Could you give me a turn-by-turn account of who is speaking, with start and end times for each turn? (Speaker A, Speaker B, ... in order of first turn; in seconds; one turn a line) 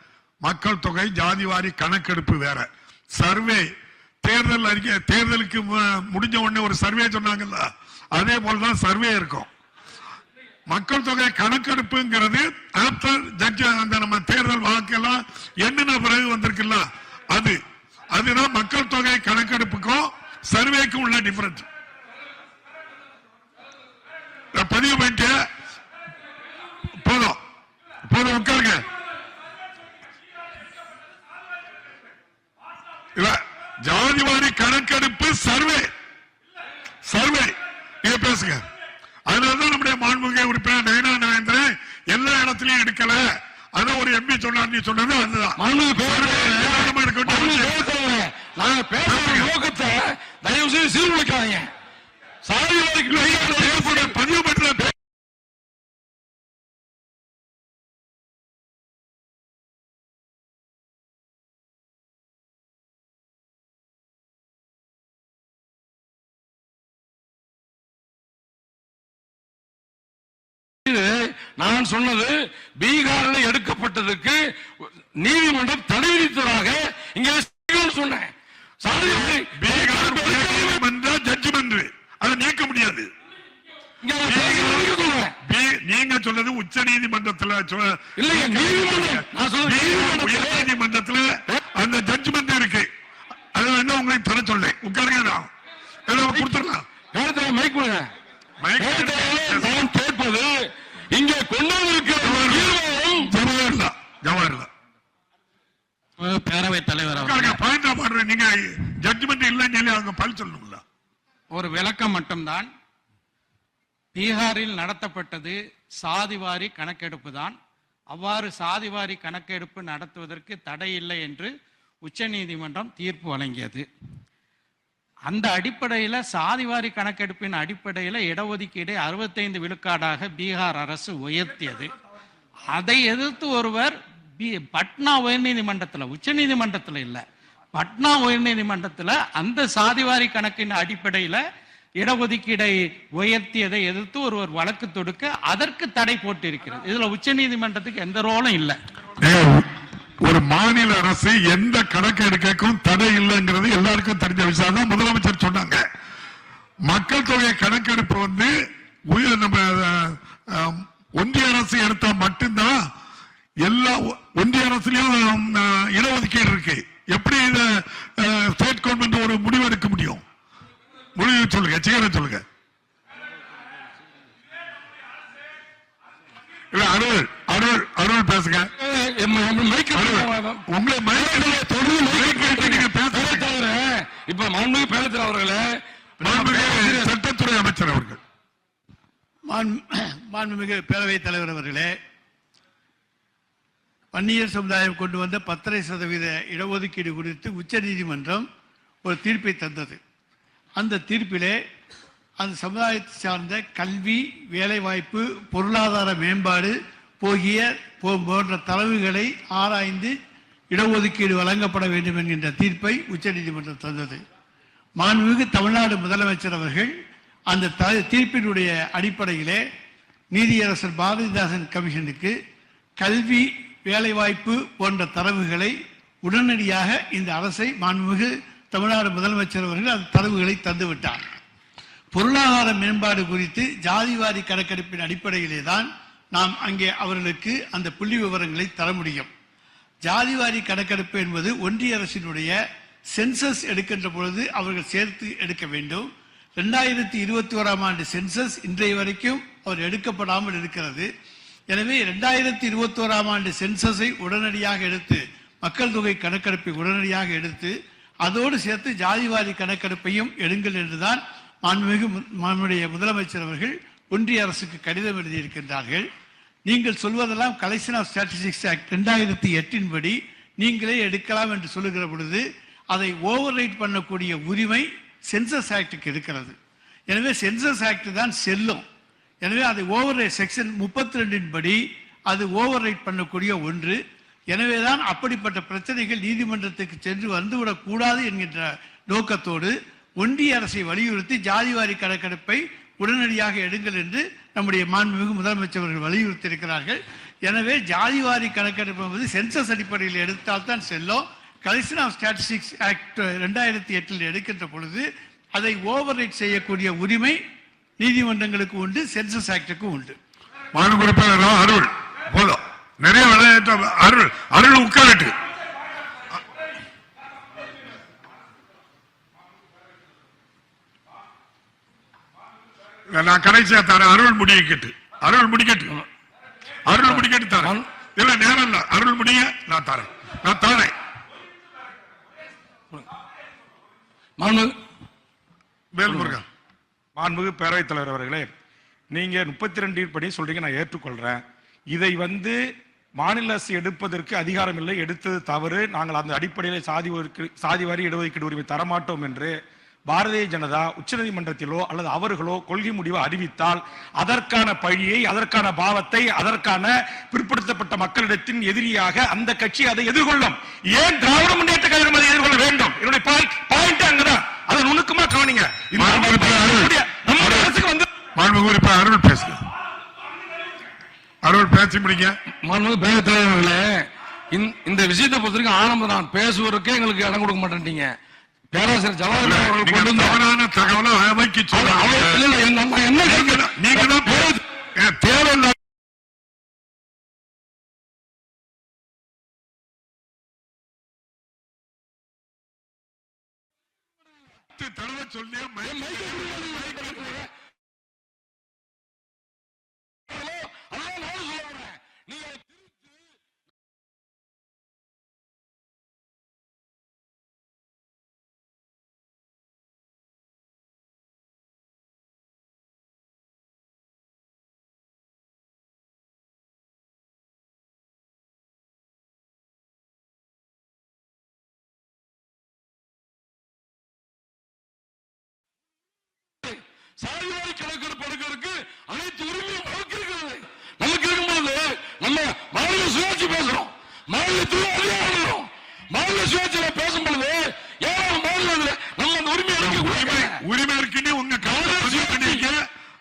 Speaker A: 0.4-3.7
Speaker A: 4.2-9.5
Speaker A: 10.7-17.6
Speaker A: 18.1-21.7
Speaker A: 24.5-25.3
Speaker A: 27.0-27.4
Speaker A: 28.1-28.8
Speaker A: 33.2-35.9
Speaker A: 37.0-37.5
Speaker A: 38.0-38.6
Speaker A: 39.3-43.2
Speaker A: 43.8-47.9
Speaker B: 45.6-51.7
Speaker A: 49.0-49.5
Speaker B: 52.4-54.1
Speaker A: 53.1-54.9
Speaker B: 70.8-78.3
Speaker B: 78.8-80.8
Speaker A: 79.0-83.1
Speaker B: 84.0-85.3
Speaker A: 84.2-92.9
Speaker B: 88.2-90.7
Speaker A: 93.5-95.5
Speaker A: 96.1-96.8
Speaker B: 97.1-98.1
Speaker A: 98.6-99.8
Speaker B: 98.8-100.6
Speaker B: 101.1-103.3
Speaker A: 102.2-104.7
Speaker C: 106.4-107.5
Speaker A: 107.1-110.8
Speaker C: 111.5-112.7
Speaker C: 114.2-117.5
Speaker C: 118.2-121.5
Speaker C: 122.1-123.8
Speaker C: 125.3-131.9
Speaker C: 132.7-137.2
Speaker C: 137.8-141.4
Speaker C: 142.0-148.8
Speaker A: 149.2-149.7
Speaker A: 150.2-155.8
Speaker A: 156.9-158.5
Speaker A: 159.1-162.8
Speaker A: 163.6-170.2
Speaker A: 171.2-172.4
Speaker A: 176.7-178.7
Speaker B: 178.8-185.6
Speaker A: 179.9-183.5
Speaker B: 186.2-187.1
Speaker A: 186.2-188.2
Speaker D: 189.5-191.9
Speaker D: 194.1-198.5
Speaker D: 199.1-200.0
Speaker D: 200.8-201.6
Speaker D: 202.4-210.1
Speaker D: 210.7-214.2
Speaker D: 215.0-216.9
Speaker D: 217.5-219.6
Speaker D: 220.3-222.3
Speaker D: 223.0-231.3
Speaker D: 232.1-239.3
Speaker D: 240.0-242.5
Speaker D: 243.1-251.1
Speaker D: 251.7-266.1
Speaker D: 266.7-276.6
Speaker D: 277.1-278.8
Speaker D: 279.4-284.0
Speaker D: 284.5-307.4
Speaker D: 308.0-310.2
Speaker A: 310.7-315.3
Speaker A: 323.1-325.9
Speaker A: 326.9-330.9
Speaker B: 327.1-327.9
Speaker B: 334.4-334.7
Speaker A: 335.9-336.5
Speaker B: 336.1-336.4
Speaker E: 337.2-338.5
Speaker E: 339.1-342.6
Speaker E: 343.2-366.3
Speaker A: 366.0-366.9
Speaker B: 366.0-366.9
Speaker E: 366.8-368.1
Speaker B: 367.4-367.7
Speaker A: 368.4-369.6
Speaker A: 371.4-372.4
Speaker B: 372.6-378.1
Speaker B: 378.7-380.4
Speaker A: 379.4-382.4
Speaker B: 381.7-384.6
Speaker A: 383.2-385.8
Speaker A: 394.7-397.4
Speaker B: 395.8-397.5
Speaker B: 400.3-403.0
Speaker B: 426.6-440.6
Speaker A: 439.8-442.8
Speaker B: 441.6-442.6